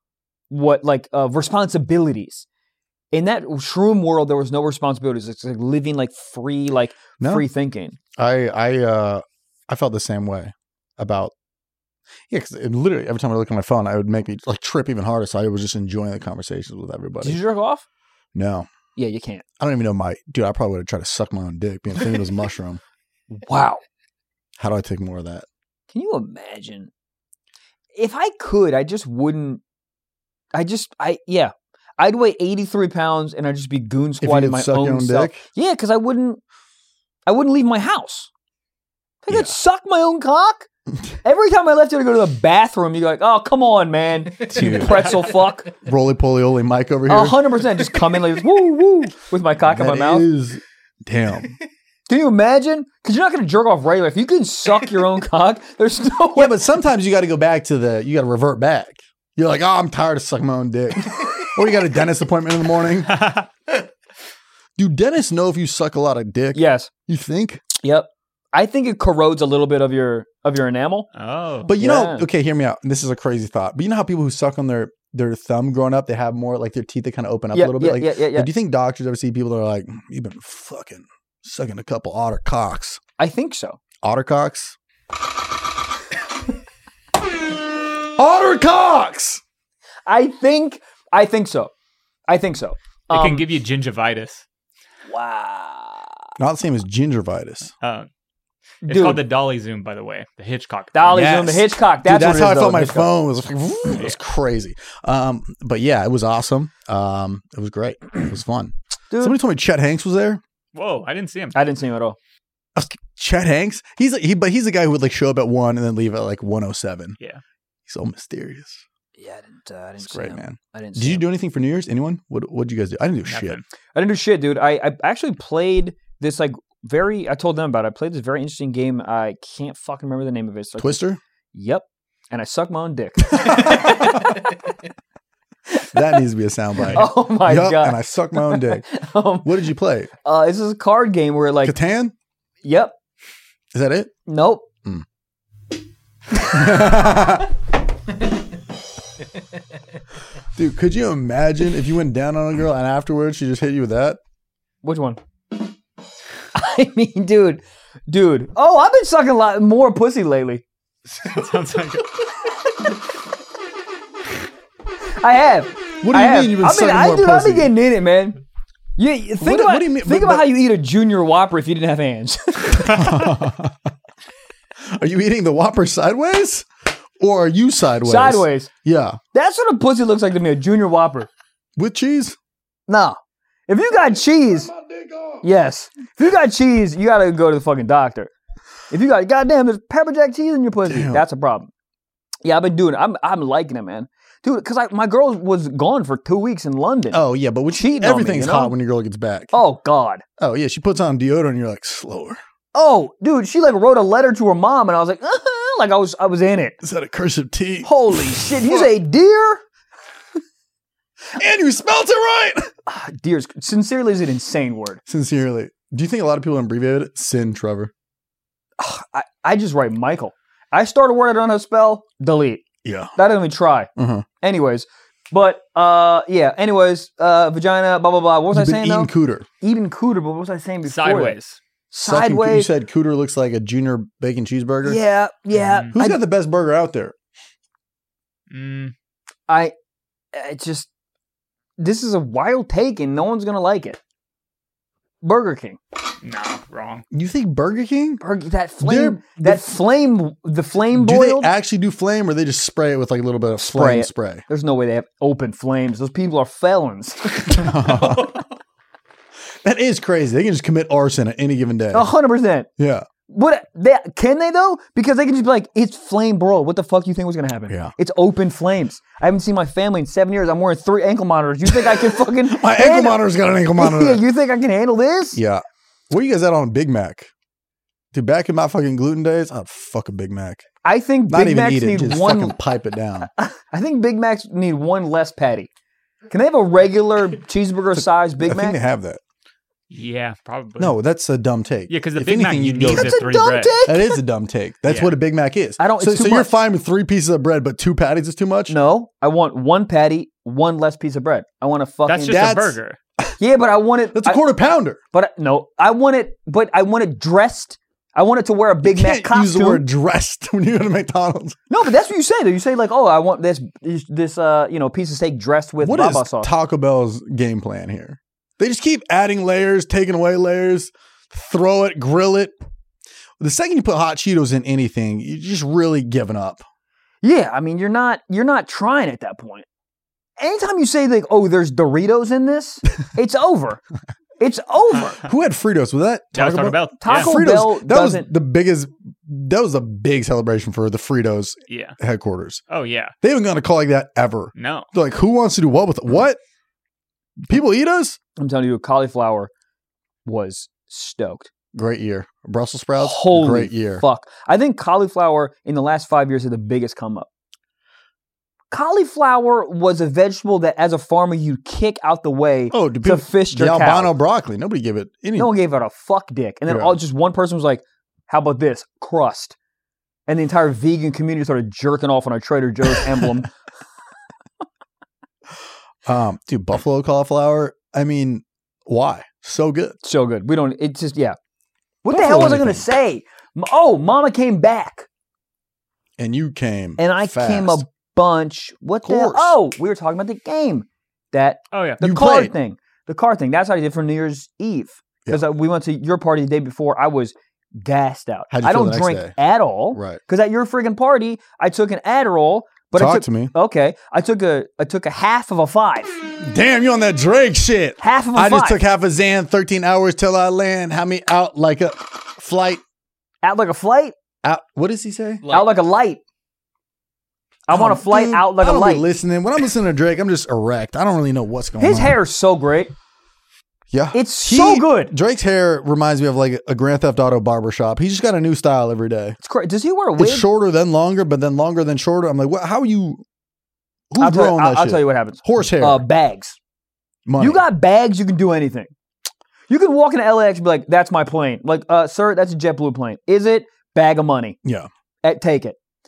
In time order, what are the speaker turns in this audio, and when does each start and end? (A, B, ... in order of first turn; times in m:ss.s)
0:00.5-0:02.4 A
0:03.1-0:08.0 A
0:07.2-0:07.4 B
0:08.2-0:11.3 B
0:12.3-0:17.4 B
0:17.2-0:17.8 A
0:18.3-0:18.7 B
0:19.0-0:19.4 A
0:19.6-0:22.8 B
0:23.3-0:23.8 A
0:24.6-0:25.4 B
0:25.9-0:26.9 A
0:27.9-0:29.6 A
0:30.5-0:36.4 A
0:34.2-0:35.4 B
0:37.2-0:38.3 A
0:39.2-0:40.7 A
0:39.3-0:39.5 B
0:41.2-0:45.7 A
0:44.4-0:45.2 B
0:45.7-0:47.5 B
0:47.1-0:50.3 A
0:49.6-0:51.6 B
0:52.1-0:56.6 A
0:56.4-1:03.2 B
1:03.1-1:03.5 C
1:04.8-1:07.6 B
1:06.5-1:06.9 A
1:07.8-1:11.1 A
1:11.1-1:11.7 C
1:11.6-1:23.0 B
1:11.8-1:12.2 A
1:17.5-1:18.5 A
1:23.2-1:23.8 A
1:24.0-1:24.8 B
1:28.2-1:29.4 B
1:30.0-1:31.7 A
1:32.3-1:33.5 A
1:33.1-1:34.4 C
1:35.1-1:36.1 A
1:36.4-1:37.7 B
1:37.8-1:38.1 C
1:38.8-1:41.0 C
1:38.9-1:39.2 A
1:40.9-1:43.1 A
1:41.0-1:50.4 B
1:49.1-1:49.4 A
1:50.7-1:51.6 C
1:51.5-1:52.2 A
1:52.8-1:57.2 B
1:57.9-1:58.8 B
1:59.2-2:01.2 A
2:00.0-2:03.6 B
2:03.2-2:03.6 C
2:03.9-2:11.0 A
2:10.8-2:11.2 B
2:11.5-2:14.5 A
2:13.3-2:14.0 B
2:15.9-2:18.8 B
2:16.9-2:19.5 A
2:19.4-2:20.1 B
2:20.2-2:21.8 A
2:21.6-2:22.1 B
2:22.6-2:22.9 A
2:23.7-2:24.1 B
2:24.3-2:24.7 A
2:26.3-2:27.5 B
2:30.5-2:34.2 B
2:34.8-2:35.2 A
2:36.5-2:40.6 A
2:41.2-2:42.2 C
2:45.2-2:48.4 A
2:46.0-2:47.7 B
2:49.0-2:53.2 A
2:49.4-2:50.5 B
2:52.8-2:53.9 B
2:54.8-2:56.7 B
2:57.2-2:59.2 B
2:58.0-2:58.7 A
2:59.3-3:01.3 A
3:01.8-3:02.4 B
3:02.9-3:04.7 A
3:03.9-3:05.4 B
3:05.4-3:08.3 A
3:08.9-3:11.7 A
3:10.9-3:11.2 B
3:12.4-3:17.2 A
3:17.1-3:19.5 B
3:17.7-3:18.7 A
3:19.5-3:20.2 A
3:20.4-3:22.4 B
3:22.7-3:26.8 A
3:26.8-3:28.9 B
3:27.8-3:29.6 A
3:31.3-3:32.7 B
3:32.9-3:35.0 A
3:35.0-3:37.9 B
3:38.8-3:42.6 A
3:42.8-3:43.1 B
3:43.2-3:43.9 A
3:44.0-3:44.2 B
3:44.4-3:51.4 A
3:48.5-3:49.5 B
3:50.8-3:51.6 C
3:51.9-3:52.7 A
3:52.0-3:55.0 B
3:54.8-3:56.2 A
3:55.5-3:55.9 C
3:55.9-3:57.1 B
3:58.5-3:58.9 C
3:59.5-3:59.7 A
4:00.3-4:00.9 A
4:01.8-4:04.0 A
4:05.2-4:05.8 A
4:06.2-4:07.0 C
4:07.1-4:08.2 B
4:08.2-4:11.5 A
4:08.8-4:09.7 B
4:10.9-4:14.4 B
4:13.6-4:18.2 A
4:17.5-4:18.4 B
4:19.6-4:22.1 B
4:21.9-4:22.7 A
4:22.8-4:23.1 B
4:23.3-4:33.2 A
4:31.6-4:34.2 B
4:33.7-4:35.4 A
4:35.3-4:37.3 B
4:38.1-4:40.6 B
4:40.8-4:42.5 A
4:41.3-4:43.3 B
4:43.3-4:45.7 A
4:46.3-4:48.8 A
4:48.0-4:49.2 B
4:49.9-4:51.0 C
4:50.8-4:53.2 B
4:51.9-4:53.7 C
4:52.8-4:54.2 A
4:53.8-4:58.7 B
4:54.9-4:55.1 C
4:55.8-4:56.5 A
4:58.7-5:02.5 A
5:02.1-5:03.0 C
5:02.3-5:03.3 B
5:03.4-5:04.4 A
5:04.1-5:05.0 B
5:05.1-5:09.8 A
5:08.8-5:11.6 B
5:11.7-5:16.5 A
5:15.8-5:22.5 B
5:23.4-5:26.6 B
5:27.2-5:29.6 A
5:30.4-5:33.8 A
5:34.4-5:35.2 A
5:35.2-5:42.6 B
5:36.3-5:37.3 C
5:37.0-5:38.3 A
5:41.7-5:42.0 C
5:42.7-5:43.1 C
5:43.2-5:46.4 B
5:44.6-5:44.9 C
5:47.5-5:48.2 B
5:48.4-5:49.5 A
5:50.2-5:51.5 A
5:51.7-5:54.0 B
5:53.0-5:57.3 A
5:58.7-6:04.1 A
6:02.7-6:05.5 B
6:05.4-6:09.6 A
6:06.7-6:06.9 B
6:10.3-6:13.5 A
6:16.0-6:20.0 B
6:20.0-6:21.4 A
6:22.0-6:25.1 A
6:22.1-6:22.8 B
6:26.2-6:27.8 B
6:27.0-6:46.1 A
6:29.0-6:29.6 B
6:31.7-6:32.0 C
6:32.0-6:32.5 B
6:38.5-6:39.3 B
6:39.9-6:40.2 B
6:43.0-6:43.5 B
6:46.2-6:52.8 B
6:48.0-6:48.8 A
6:53.4-6:54.1 A
6:54.4-6:55.4 B
6:55.4-6:56.2 A
6:57.7-6:59.0 A
6:57.7-7:02.2 B
7:01.8-7:02.9 A
7:03.9-7:09.4 B
7:04.1-7:05.1 A
7:09.4-7:10.5 A
7:10.2-7:13.2 B
7:14.1-7:16.0 B
7:14.2-7:16.6 A
7:17.2-7:17.6 B
7:17.4-7:18.9 A
7:19.7-7:24.6 A
7:24.6-7:24.9 B
7:25.2-7:25.8 A